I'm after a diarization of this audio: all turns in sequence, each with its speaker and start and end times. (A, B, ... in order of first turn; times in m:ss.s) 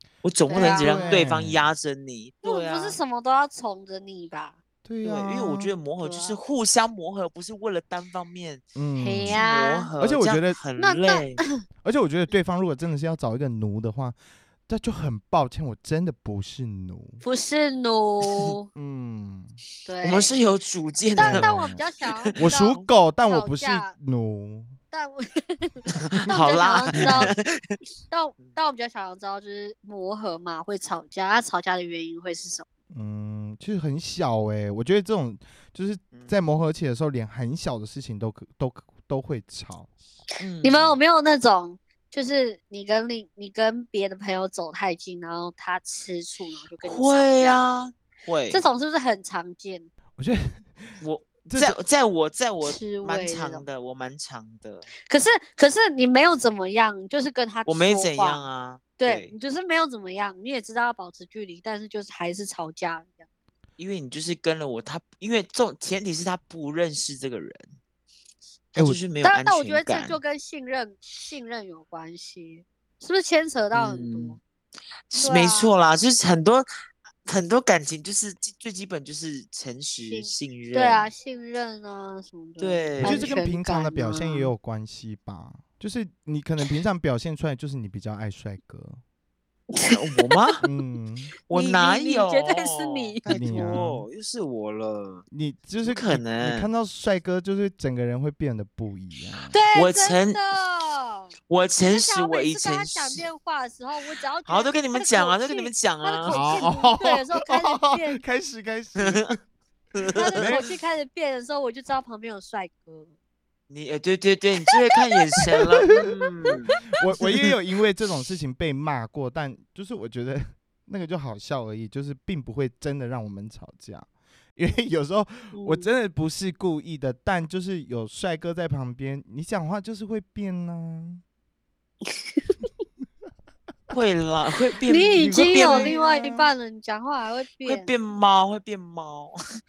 0:00.2-0:03.0 A
0:00.5-0:01.2 B
0:00.5-0:01.7 C
0:02.4-0:04.6 B
0:04.8-0:05.7 C
0:05.0-0:08.6 A
0:06.0-0:06.4 B
0:08.7-0:09.4 C
0:09.0-0:09.9 B
0:09.3-0:11.4 A
0:10.0-0:10.6 C
0:10.8-0:11.6 B
0:11.8-0:14.2 C
0:14.7-0:17.2 C
0:17.2-0:18.7 B
0:18.7-0:19.6 C
0:19.8-0:20.3 B
0:20.0-0:22.8 A
0:21.2-0:23.9 B
0:21.2-0:21.8 C
0:22.4-0:24.8 C
0:24.9-0:27.3 B
0:26.0-0:27.8 A
0:27.0-0:27.3 C
0:28.1-0:32.6 B
0:32.9-0:39.9 C
0:36.1-0:36.6 A
0:40.4-0:41.0 A
0:40.6-0:47.6 B
0:46.8-0:48.6 A
0:48.5-0:49.9 B
0:50.2-0:51.8 C
0:51.0-0:54.9 A
0:52.6-0:53.6 B
0:55.0-0:58.4 B
0:57.6-0:59.3 A
0:59.0-1:03.2 B
1:03.8-1:07.7 A
1:08.7-1:10.2 A
1:09.2-1:14.4 B
1:13.7-1:14.4 A
1:15.1-1:16.7 A
1:15.2-1:15.7 B
1:17.2-1:21.1 A
1:20.0-1:24.5 B
1:22.6-1:23.3 A
1:23.0-1:29.0 C
1:29.7-1:30.4 B
1:29.8-1:30.6 A
1:30.6-1:31.3 C
1:31.5-1:35.2 A
1:31.5-1:33.8 B
1:33.2-1:34.0 C
1:35.3-1:39.6 C
1:35.8-1:36.7 A
1:39.5-1:41.3 B
1:39.7-1:40.4 A
1:41.5-1:43.2 A
1:41.8-1:48.2 B
1:44.4-1:46.4 A
1:46.3-1:49.4 C
1:49.0-1:49.3 A
1:50.0-1:50.6 A
1:50.1-1:53.1 B
1:50.4-1:50.7 C
1:53.7-1:57.5 A
1:57.0-2:11.2 C
2:05.5-2:05.9 B
2:12.0-2:12.5 B
2:13.9-2:16.0 A
2:14.9-2:17.9 B
2:15.2-2:16.5 C
2:17.6-2:19.4 A